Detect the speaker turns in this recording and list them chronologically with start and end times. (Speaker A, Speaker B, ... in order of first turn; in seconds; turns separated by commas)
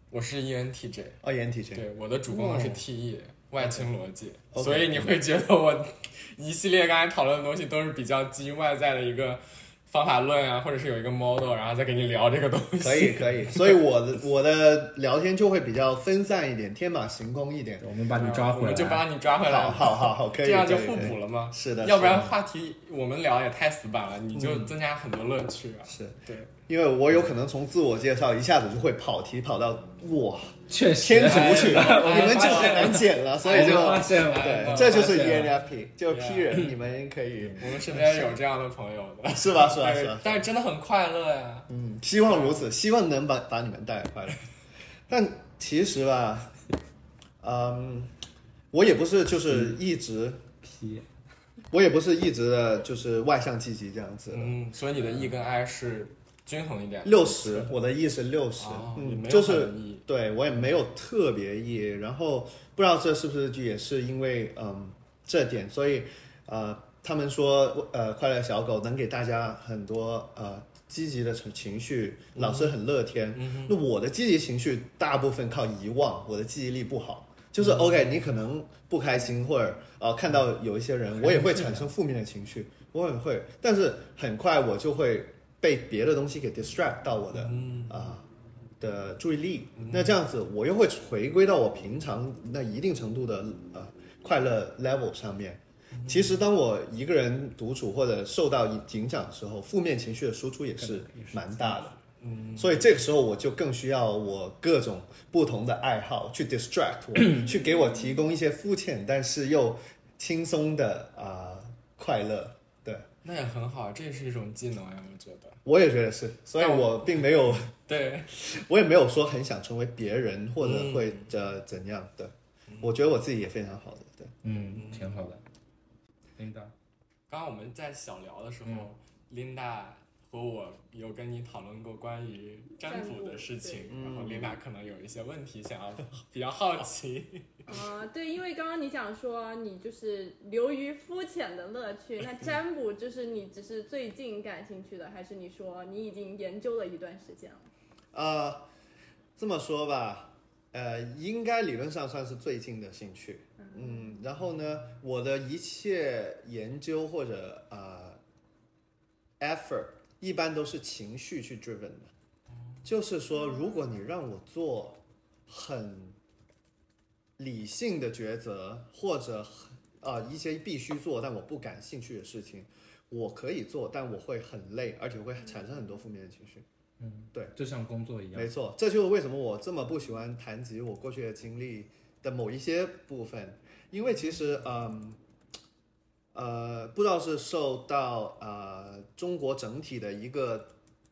Speaker A: 0.1-1.2, Speaker B: 1.2-2.8, Speaker A: 1.7-13.8, Speaker B: 3.6-3.8, Speaker B: 4.5-5.2, Speaker B: 12.8-17.8, Speaker C: 17.8-19.1, Speaker A: 18.1-26.5, Speaker B: 19.4-22.3, Speaker B: 24.3-24.7, Speaker B: 25.9-38.3, Speaker C: 30.7-35.5, Speaker A: 31.2-35.5, Speaker A: 36.0-36.7, Speaker A: 37.6-41.7, Speaker B: 39.3-40.5, Speaker B: 41.7-44.4, Speaker A: 42.2-42.6, Speaker B: 45.1-46.5, Speaker B: 47.4-48.1, Speaker B: 48.7-50.4, Speaker C: 50.6-51.0, Speaker B: 51.7-54.6, Speaker A: 54.3-57.7, Speaker B: 57.0-88.3, Speaker A: 58.6-60.0, Speaker A: 72.3-72.8, Speaker A: 73.3-73.8, Speaker A: 77.6-78.3, Speaker A: 81.3-81.7, Speaker A: 87.3-88.1, Speaker B: 88.8-102.0, Speaker A: 89.8-90.2, Speaker A: 96.0-96.4, Speaker C: 100.8-101.9, Speaker A: 102.2-102.9, Speaker B: 102.5-113.1, Speaker D: 107.5-108.2, Speaker A: 113.2-115.6, Speaker B: 115.6-117.7, Speaker A: 116.6-118.3, Speaker B: 118.3-124.3, Speaker A: 120.6-121.3, Speaker A: 122.7-123.0, Speaker C: 124.4-125.4, Speaker A: 124.7-125.2, Speaker C: 126.4-126.7, Speaker A: 127.3-137.8, Speaker D: 132.8-133.9, Speaker B: 133.9-134.6, Speaker D: 137.7-147.7, Speaker B: 148.1-148.7, Speaker B: 149.4-158.2, Speaker D: 153.6-154.2, Speaker B: 159.4-162.1, Speaker B: 162.8-166.2, Speaker B: 167.4-176.7, Speaker C: 177.0-178.5, Speaker B: 178.3-185.2, Speaker B: 186.3-190.7